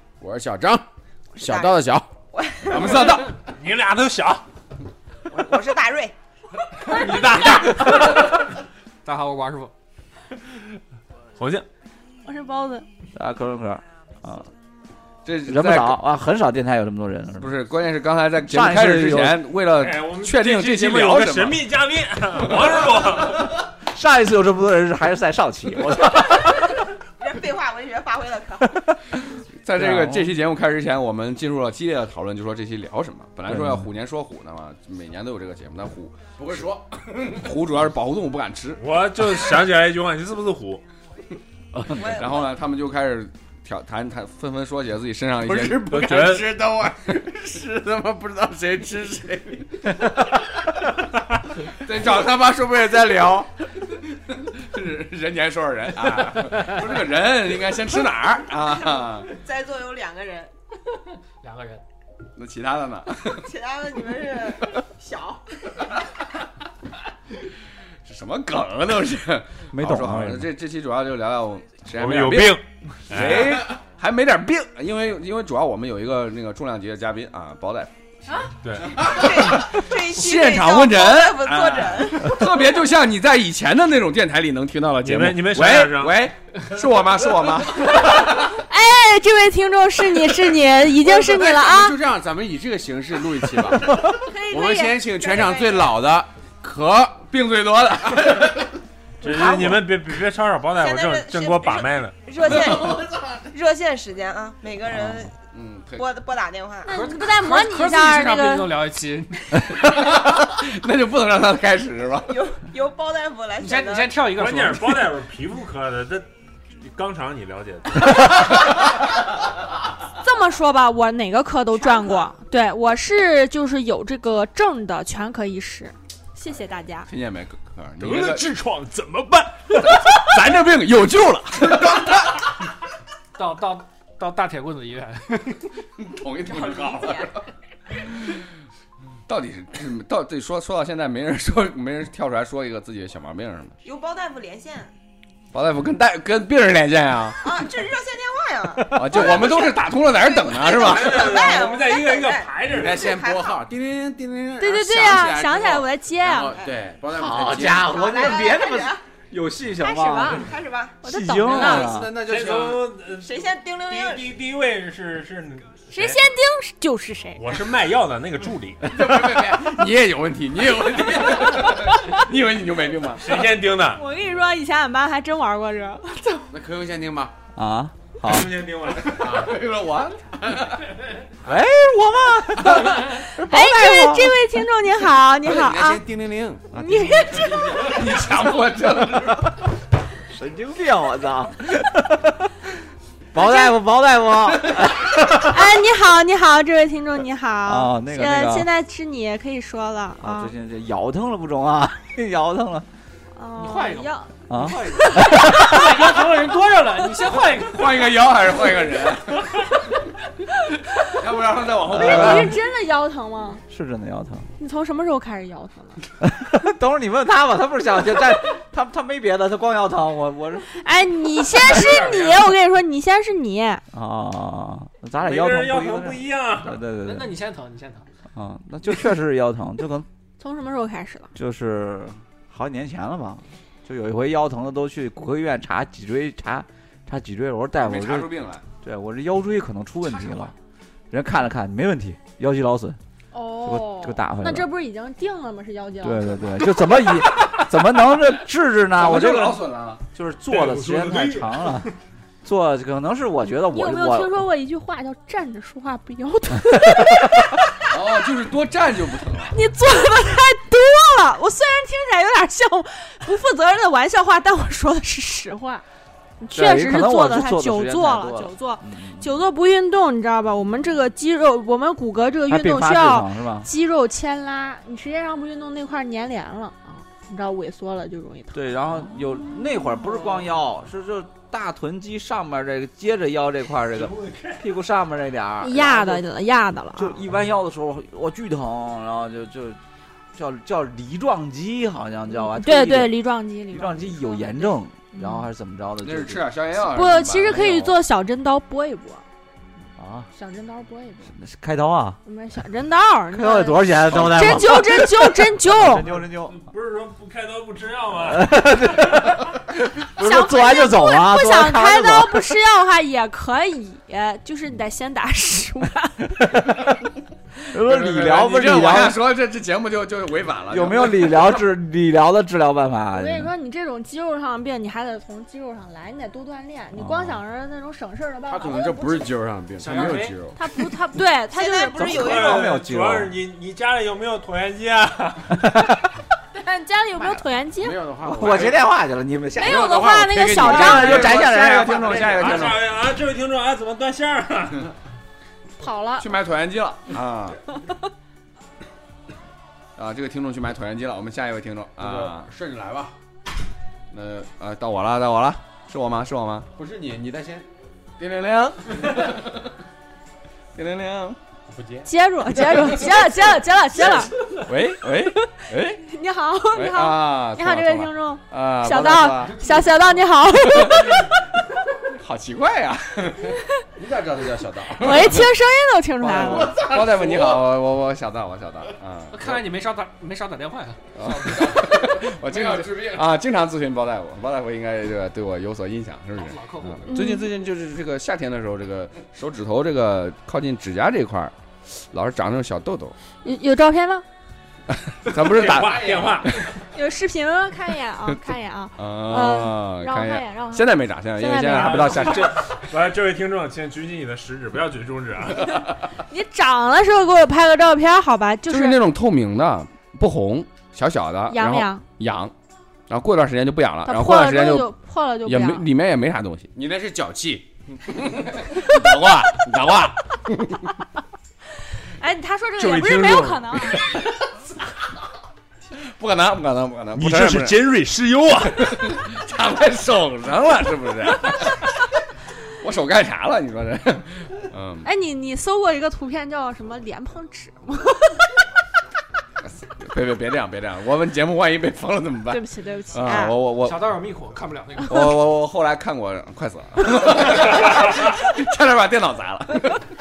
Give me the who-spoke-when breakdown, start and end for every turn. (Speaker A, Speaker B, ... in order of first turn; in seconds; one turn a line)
Speaker A: 0.2-0.8
Speaker B: 1.4-3.1
Speaker A: 1.4-2.1
Speaker C: 2.6-3.4
Speaker D: 3.4-4.4
Speaker B: 5.3-6.1
Speaker D: 6.8-8.2
Speaker E: 7.6-8.4
Speaker E: 9.0-9.7
Speaker D: 11.4-11.7
Speaker F: 12.2-12.8
Speaker G: 13.1-14.5
Speaker C: 15.2-16.0
Speaker G: 15.4-17.5
Speaker C: 17.4-21.6
Speaker G: 18.4-19.4
Speaker D: 19.8-23.5
Speaker G: 23.8-26.8
Speaker B: 27.2-28.9
Speaker C: 29.6-36.6
Speaker G: 29.8-30.3
Speaker G: 33.5-33.9
Speaker A: 36.4-37.4
Speaker C: 37.2-39.4
Speaker D: 38.8-40.8
Speaker C: 41.7-47.7
Speaker B: 41.9-42.5
Speaker A: 45.4-49.3
Speaker D: 45.8-46.5
Speaker C: 48.5-49.9
Speaker C: 51.8-53.5
Speaker C: 54.4-59.3
Speaker B: 59.0-60.5
Speaker E: 61.4-61.8
Speaker C: 62.4-63.5
Speaker B: 63.4-65.5
Speaker C: 68.0-77.9
Speaker G: 69.7-70.5
Speaker D: 71.9-73.6
Speaker D: 78.6-79.0
Speaker B: 78.8-82.4
Speaker C: 79.0-88.5
Speaker D: 85.0-86.3
Speaker F: 87.9-92.0
Speaker A: 91.0-97.3
Speaker F: 94.0-95.5
Speaker B: 95.3-95.8
Speaker C: 97.3-98.7
Speaker D: 99.2-102.1
Speaker B: 99.2-100.0
Speaker B: 100.7-105.3
Speaker C: 102.4-103.1
Speaker C: 105.5-106.0
Speaker B: 106.0-107.0
Speaker F: 106.8-108.7
Speaker E: 106.9-109.4
Speaker C: 109.7-112.3
Speaker B: 112.3-114.2
Speaker E: 113.6-115.1
Speaker D: 114.3-116.3
Speaker D: 116.8-118.3
Speaker F: 120.2-127.1
Speaker B: 121.8-122.3
Speaker C: 127.1-128.4
Speaker D: 128.0-130.6
Speaker C: 129.8-132.4
Speaker E: 133.3-135.7
Speaker C: 136.0-137.4
Speaker B: 136.5-137.3
Speaker C: 139.3-143.8
Speaker B: 143.8-144.9
Speaker C: 145.5-147.6
Speaker B: 147.4-153.6
Speaker C: 148.9-151.4
Speaker D: 150.7-153.1
Speaker A: 152.7-158.0
Speaker F: 154.6-156.6
Speaker G: 157.1-160.5
Speaker B: 157.5-159.0
Speaker F: 159.8-160.5
Speaker B: 160.2-161.0
Speaker F: 161.0-161.9
Speaker G: 161.0-162.1
Speaker A: 161.4-162.9
Speaker D: 162.2-166.2
Speaker B: 163.2-164.4
Speaker F: 165.9-167.5
Speaker D: 167.3-169.0
Speaker C: 168.8-173.4
Speaker D: 173.2-174.0
Speaker F: 173.8-176.5
Speaker A: 176.5-177.3
Speaker G: 177.5-178.5
Speaker D: 178.2-179.5
Speaker C: 179.0-180.8
Speaker A: 179.2-179.5
Speaker G: 181.4-184.4
Speaker F: 183.1-186.0
Speaker A: 185.4-187.8
Speaker F: 186.7-188.0
Speaker C: 187.3-189.5
Speaker G: 190.3-192.5
Speaker G: 193.3-195.6
Speaker F: 193.3-193.7
Speaker F: 195.4-200.5
Speaker G: 197.7-198.7
Speaker G: 200.2-202.9
Speaker F: 203.3-204.3
Speaker E: 203.6-208.1
Speaker G: 204.5-205.9
Speaker F: 204.9-206.1
Speaker C: 207.5-209.7
Speaker C: 211.1-212.5
Speaker G: 211.9-212.6
Speaker F: 211.9-213.6
Speaker G: 213.7-214.5
Speaker F: 214.6-216.0
Speaker G: 216.2-220.7
Speaker F: 220.7-223.8
Speaker D: 221.5-222.5
Speaker G: 223.9-227.3
Speaker D: 225.2-226.8
Speaker E: 226.9-228.1
Speaker G: 228.3-230.1
Speaker F: 230.4-231.3
Speaker G: 231.3-240.5
Speaker C: 237.8-238.6
Speaker G: 241.1-243.0
Speaker F: 243.3-246.5
Speaker G: 243.6-244.7
Speaker G: 246.0-251.9
Speaker C: 248.9-250.0
Speaker D: 250.5-251.9
Speaker G: 252.4-254.5
Speaker F: 253.7-257.5
Speaker G: 256.6-257.3
Speaker C: 257.9-259.6
Speaker F: 259.5-265.8
Speaker F: 266.4-278.6
Speaker G: 266.5-269.3
Speaker G: 272.5-273.7
Speaker G: 278.5-286.2
Speaker D: 283.9-284.6
Speaker F: 285.6-287.2
Speaker G: 286.9-289.8
Speaker G: 290.3-293.2
Speaker F: 292.3-295.5
Speaker G: 293.7-296.5
Speaker C: 296.0-297.9
Speaker F: 296.9-299.2
Speaker G: 299.9-300.3
Speaker F: 300.3-301.3
Speaker G: 301.3-302.2
Speaker F: 302.2-306.1
Speaker G: 303.3-306.6
Speaker C: 304.1-304.6
Speaker D: 305.9-308.7
Speaker G: 308.2-312.6
Speaker F: 310.2-316.4
Speaker G: 316.4-317.1
Speaker G: 317.7-319.2
Speaker C: 317.7-321.7
Speaker G: 320.7-323.5
Speaker F: 323.1-329.3
Speaker G: 326.9-327.4
Speaker A: 328.5-330.6
Speaker E: 329.8-330.4
Speaker F: 330.5-332.3
Speaker B: 331.5-332.8
Speaker G: 331.9-333.3
Speaker D: 332.1-335.9
Speaker F: 336.5-338.0
Speaker A: 337.8-338.8
Speaker G: 338.2-339.9
Speaker F: 339.6-341.4
Speaker A: 339.6-341.6
Speaker C: 340.4-342.8
Speaker G: 340.6-342.6
Speaker D: 342.2-344.9
Speaker F: 345.8-346.2
Speaker C: 346.2-347.6
Speaker C: 349.9-352.5
Speaker A: 352.0-353.1
Speaker C: 354.1-356.7
Speaker A: 356.7-357.7
Speaker C: 358.2-359.6
Speaker C: 360.7-361.4
Speaker D: 361.7-362.1
Speaker F: 362.0-364.3
Speaker C: 364.1-366.0
Speaker F: 365.2-371.2
Speaker C: 366.7-369.6
Speaker C: 370.7-371.2
Speaker C: 372.1-373.6
Speaker A: 374.0-375.4
Speaker F: 375.0-376.8
Speaker C: 375.0-375.4
Speaker A: 376.2-377.8
Speaker C: 376.3-379.6
Speaker E: 379.3-381.6
Speaker C: 381.1-393.1
Speaker A: 381.4-383.2
Speaker E: 386.3-387.1
Speaker F: 387.1-387.5
Speaker F: 393.4-394.2
Speaker C: 395.1-396.5
Speaker D: 395.2-396.5
Speaker A: 395.6-396.4
Speaker F: 396.9-402.4
Speaker C: 398.3-402.8
Speaker D: 401.6-405.7
Speaker F: 405.6-409.0
Speaker C: 408.7-412.5
Speaker F: 411.5-412.0
Speaker C: 413.1-414.9
Speaker F: 414.1-415.9
Speaker C: 415.4-416.7
Speaker A: 416.7-417.7
Speaker C: 418.4-420.8
Speaker F: 422.2-424.1
Speaker D: 422.8-424.1
Speaker C: 426.0-427.8
Speaker D: 427.1-429.0
Speaker C: 428.6-431.9
Speaker C: 432.8-435.1
Speaker F: 435.0-438.5
Speaker C: 439.7-444.2
Speaker F: 442.5-443.6
Speaker E: 443.8-445.3
Speaker C: 445.1-450.0